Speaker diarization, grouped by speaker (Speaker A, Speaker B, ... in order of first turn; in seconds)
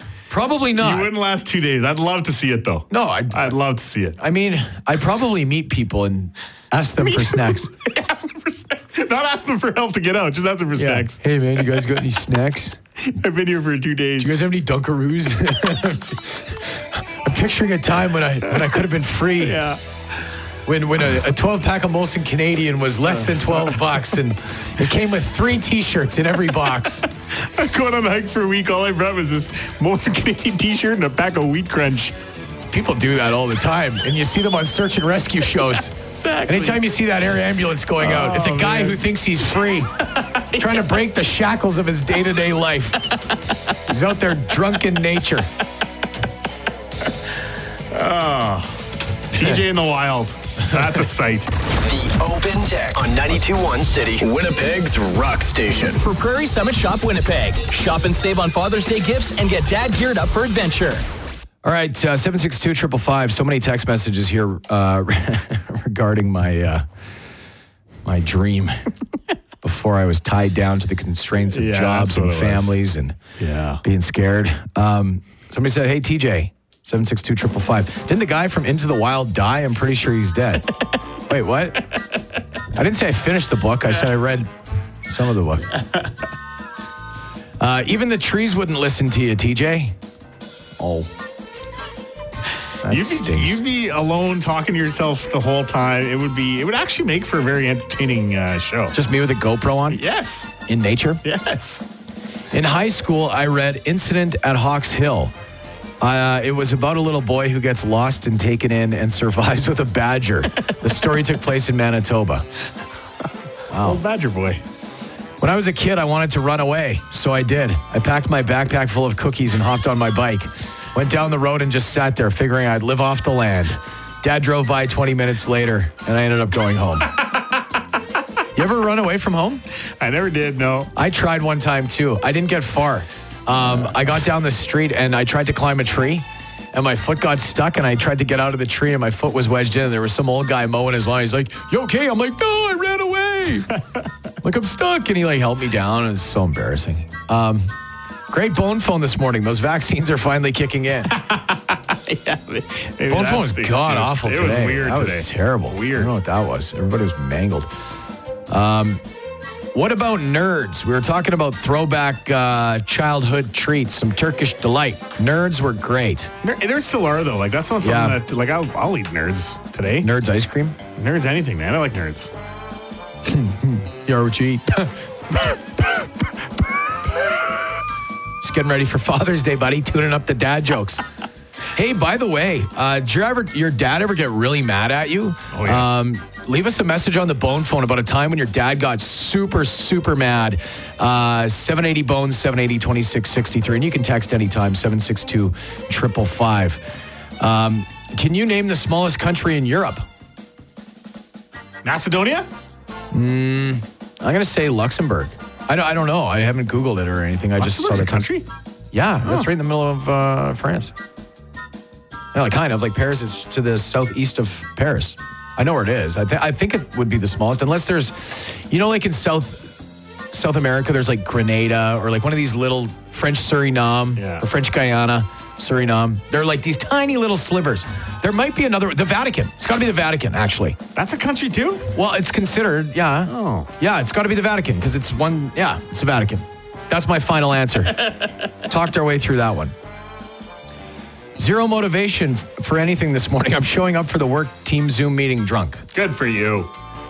Speaker A: 0.3-1.1, 2.9-3.6, 4.2-7.7, 10.7-12.8, 14.2-19.6, 20.6-27.1, 32.7-35.9, 36.5-39.9, 40.6-43.0, 43.9-45.5, 61.6-66.8, 68.0-68.8, 69.6-73.2, 73.8-80.7, 81.3-81.9, 82.7-84.5, 85.0-85.7, 87.6-90.0, 90.8-91.1, 92.8-93.6, 98.9-100.0, 100.7-101.2, 102.5-105.3, 106.0-112.5, 113.7-114.0, 115.4-127.1, 128.5-129.6, 130.9-143.7, 144.4-147.7, 148.3-151.1, 153.1-157.7, 158.5-159.0, 159.7-166.3, 167.8-168.2, 170.0-170.8, 173.2-176.0, 178.4-181.0, 181.7-196.8, 197.4-200.0, 203.1-208.3, 208.9-210.9, 212.3-219.8, 220.3-230.8, 231.9-238.0, 238.7-239.7, 241.3-245.8
Speaker B: 0.8-4.2, 7.0-11.2, 13.1-14.4, 18.5-18.8, 19.4-19.8, 23.1-23.9, 27.3-32.2, 36.1-37.0, 38.0-40.9, 47.9-51.5, 71.5-72.8, 73.4-73.8, 85.8-86.1, 92.8-98.9, 99.9-100.5, 101.2-101.8, 113.8-114.6, 130.0-130.9, 143.7-144.1, 151.1-156.1, 166.4-170.1, 170.9-172.3, 185.5-186.0, 201.8-202.5, 207.6-208.5, 209.2-209.5, 224.2-224.4, 230.9-231.9, 233.3-233.7, 245.9-246.7
Speaker C: 51.8-56.0
Speaker D: 56.0-61.0